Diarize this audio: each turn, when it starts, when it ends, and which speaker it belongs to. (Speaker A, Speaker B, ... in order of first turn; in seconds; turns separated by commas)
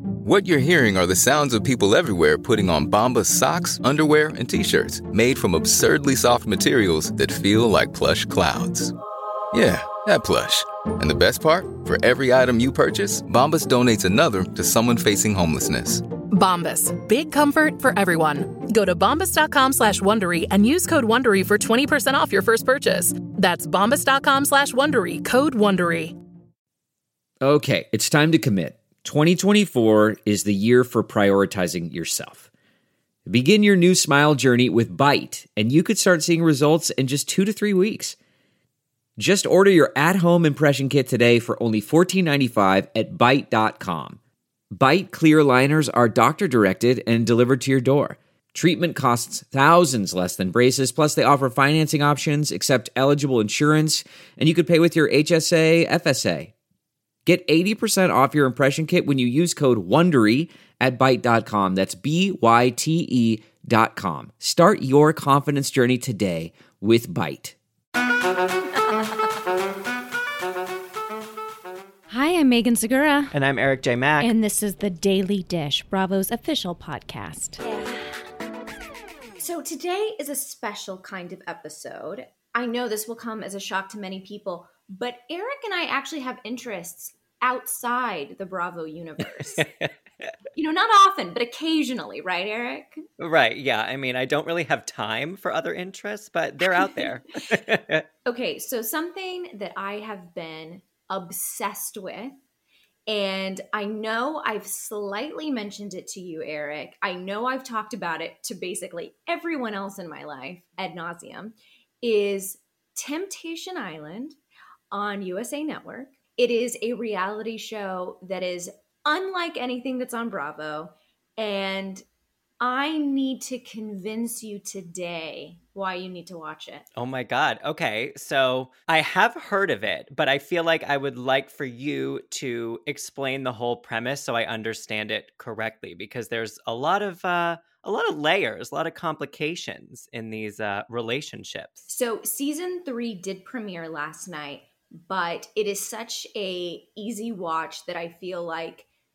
Speaker A: 0.2-8.9, Speaker A: 9.5-16.0, Speaker B: 16.3-26.1, Speaker C: 27.4-32.4, Speaker C: 33.2-38.1, Speaker C: 39.2-44.2, Speaker C: 44.7-56.5, Speaker C: 57.2-67.5, Speaker D: 72.1-73.3, Speaker E: 73.3-74.3, Speaker D: 74.2-77.6, Speaker F: 79.4-89.6, Speaker E: 89.4-89.9, Speaker F: 90.5-93.0, Speaker E: 93.2-98.0, Speaker F: 96.7-97.1, Speaker F: 98.2-102.4, Speaker F: 103.1-114.4, Speaker F: 114.9-122.0, Speaker F: 122.6-126.8, Speaker E: 127.0-141.8, Speaker F: 141.9-148.8